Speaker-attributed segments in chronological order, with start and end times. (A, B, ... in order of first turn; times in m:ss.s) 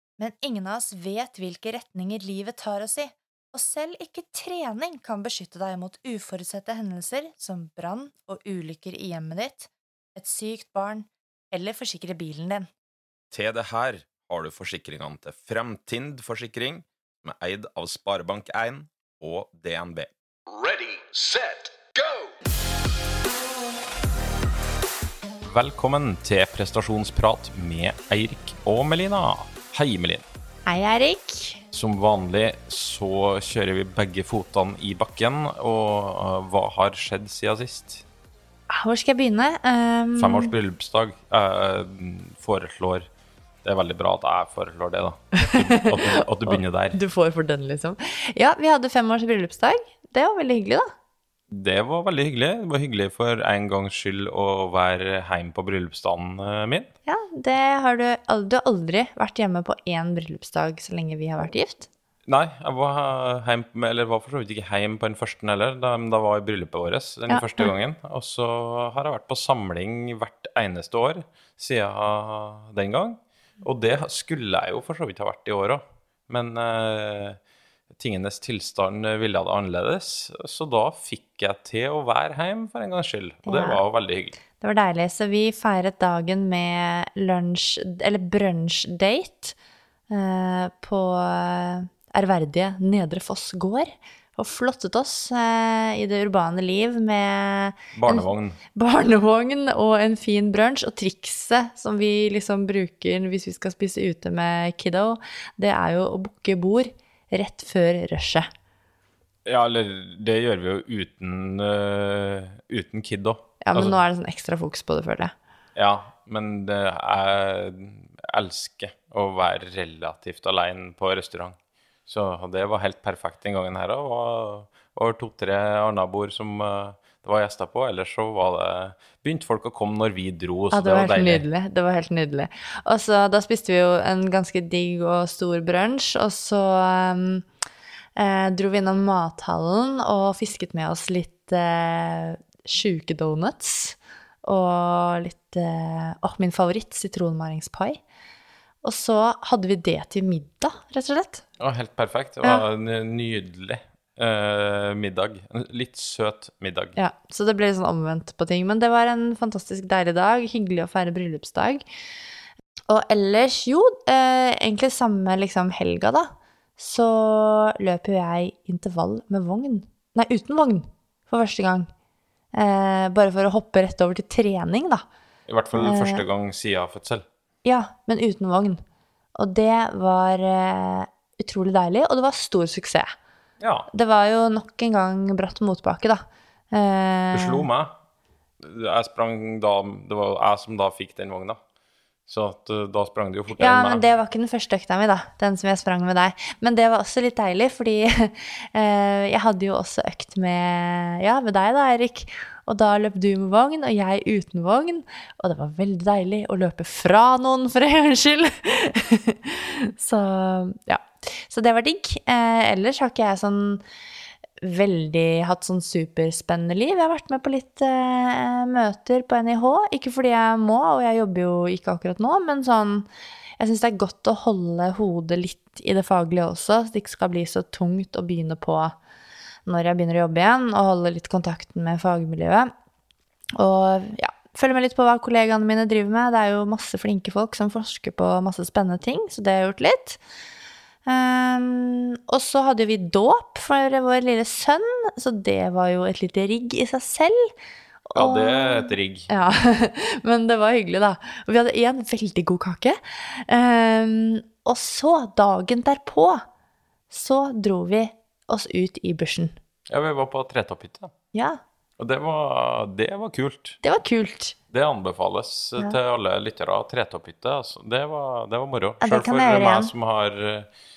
0:00.2-0:12.7 A
0:13.3-0:21.7 B
0:25.4-0:30.2 B
0:30.6-0:31.6 A
0:31.7-0:38.0 B
0:38.7-0:40.5 A
0:40.2-0:43.0 B
0:43.6-0:47.0 B
0:45.3-0:50.8 A
0:51.5-0:56.9 B
0:57.1-1:01.9 A
1:02.3-1:17.4 B
1:07.3-1:07.7 A
1:18.0-1:24.4 B
1:23.4-1:23.8 A
1:24.6-1:29.6 A
1:30.1-1:48.5 A
1:37.9-1:38.6 B
1:49.4-1:54.0 B
1:53.6-1:55.3 A
1:55.8-2:01.6 B
2:02.1-2:11.4 B
2:10.7-2:17.5 A
2:18.2-2:28.0 A
2:28.8-2:31.4 A
2:31.6-2:37.0 B
2:37.0-2:41.8 A
2:42.9-2:51.9 A
2:52.5-2:55.0 A
2:55.5-2:57.2 B
2:55.7-2:56.2 A
2:57.6-2:58.8 A
2:59.4-3:03.1 A
3:03.6-3:03.9 B
3:03.9-3:07.6 A
3:07.3-3:07.9 B
3:08.6-3:11.6 B
3:12.3-3:14.1 B
3:13.6-3:33.8 A
3:34.6-3:43.1 A
3:43.6-3:48.9 A
3:49.6-3:52.7 A
3:53.6-4:00.2 A
4:01.0-4:07.5 A
4:08.1-4:16.4 A
4:08.1-4:09.3 B
4:17.1-4:19.5 A
4:19.9-4:21.1 B
4:21.3-4:21.6 A
4:22.0-4:23.8 B
4:23.8-4:24.6 A
4:24.7-4:30.7 B
4:29.0-4:29.9 A